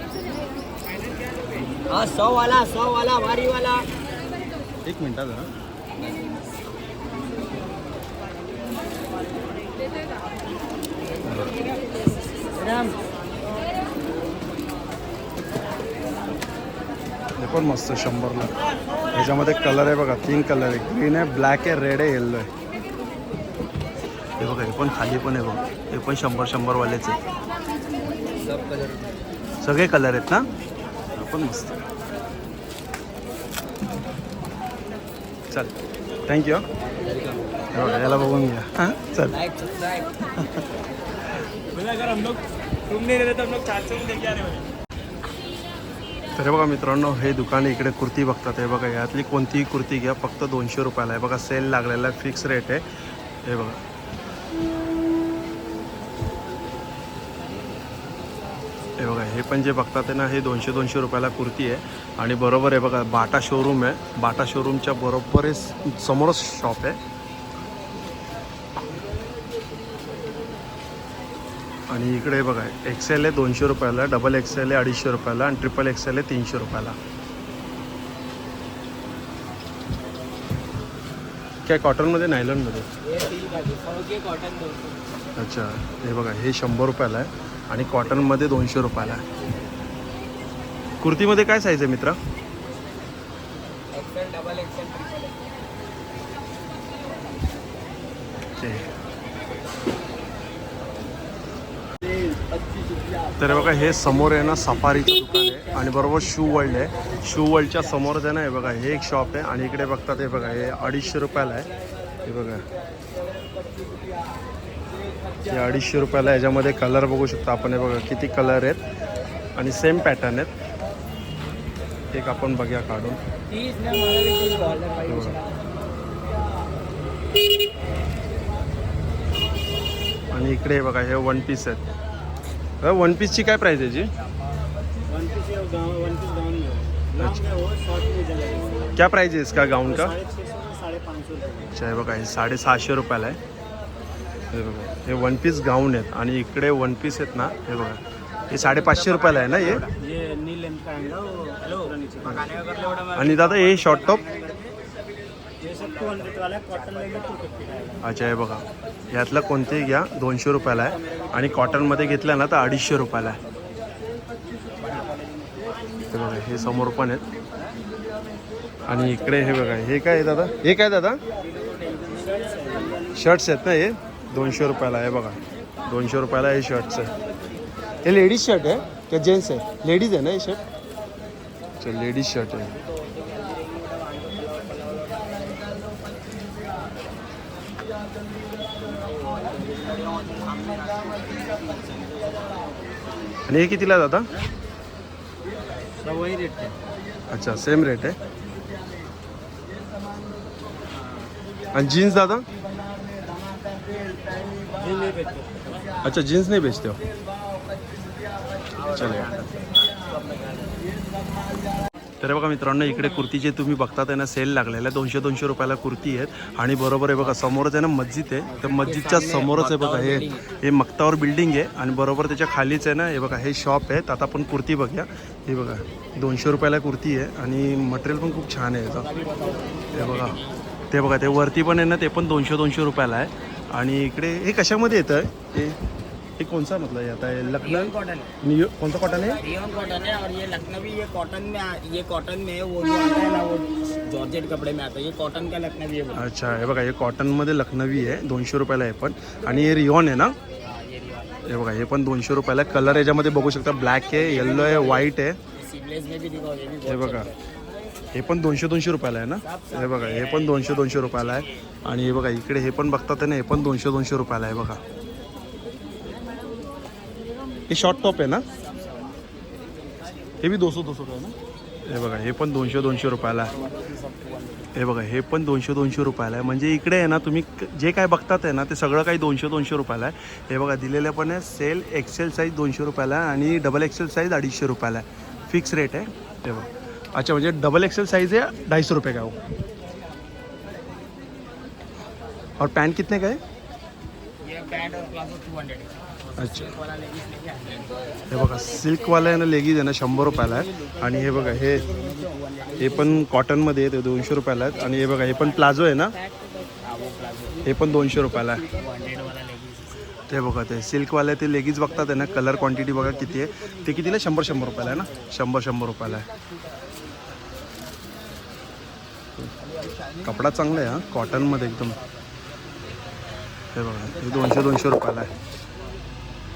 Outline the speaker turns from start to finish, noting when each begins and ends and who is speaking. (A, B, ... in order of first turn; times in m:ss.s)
0:01.8-0:03.9 A
0:04.8-0:05.5 B
0:11.2-0:11.5 B
0:12.5-0:13.0 A
0:17.4-0:18.5 B
0:19.1-0:22.5 B
0:24.4-0:27.2 B
0:28.3-0:29.2 A
0:29.6-0:30.4 B
0:31.1-0:31.8 B
0:36.3-0:36.6 B
0:36.9-0:38.2 A
0:37.7-0:39.3 B
0:39.3-0:40.5 A
0:41.7-0:44.7 A
0:46.3-0:52.8 B
0:53.4-0:53.8 B
0:59.0-1:07.0 B
1:11.9-1:17.0 B
1:21.6-1:22.9 B
1:23.0-1:25.0 A
1:25.4-1:29.2 B
1:31.0-1:32.2 B
1:33.9-1:35.3 A
1:38.6-1:38.9 B
1:43.4-1:51.7 B
1:52.2-1:52.6 B
1:55.4-1:58.8 B
1:59.6-2:00.5 B
2:02.1-2:03.2 B
2:03.5-2:05.6 A
2:05.1-2:05.4 B
2:10.3-2:11.8 B
2:12.8-2:14.1 B
2:15.1-2:19.0 A
2:17.2-2:17.4 B
2:18.9-2:20.2 B
2:19.8-2:21.7 A
2:21.7-2:23.4 B
2:24.5-2:28.0 B
2:28.5-2:29.9 B
2:28.5-2:34.7 A
2:33.1-2:34.2 B
2:35.6-2:38.0 A
2:38.0-2:43.4 B
2:44.8-2:45.6 A
2:46.1-2:47.2 B
2:48.9-2:51.2 B
2:51.4-2:53.1 A
2:53.1-2:57.1 B
2:58.0-3:00.6 B
3:01.8-3:02.7 B
3:02.7-3:05.6 A
3:08.8-3:12.7 A
3:13.5-3:14.3 B
3:15.9-3:16.8 A
3:17.3-3:18.2 B
3:21.0-3:21.3 A
3:21.7-3:22.4 B
3:24.5-3:25.9 A
3:26.0-3:27.0 B
3:28.7-3:30.8 A
3:28.9-3:29.3 B
3:32.2-3:49.0 B
3:38.5-3:40.4 A
3:49.0-3:50.7 A
3:49.9-3:50.3 B
3:50.9-3:55.8 B
3:56.4-3:59.4 B
3:57.6-3:58.3 A
3:59.1-4:06.2 A
4:06.1-4:10.4 B
4:10.6-4:11.4 A
4:11.4-4:15.4 B
4:14.1-4:17.4 A
4:16.8-4:17.3 B
4:18.1-4:24.8 B
4:19.4-4:21.4 A
4:27.7-4:28.4 B
4:30.4-4:31.3 B
4:31.8-4:33.5 B
4:34.7-4:49.4 B
4:52.6-4:53.4 B
4:54.4-4:58.3 A
4:56.4-4:56.7 B
4:58.3-5:01.9 B
5:00.2-5:03.2 A
5:02.8-5:06.1 B
5:05.1-5:05.4 A
5:06.8-5:07.6 A
5:07.6-5:08.6 B
5:08.5-5:10.1 A
5:10.3-5:16.2 B
5:20.2-5:22.0 B
5:23.7-5:25.3 B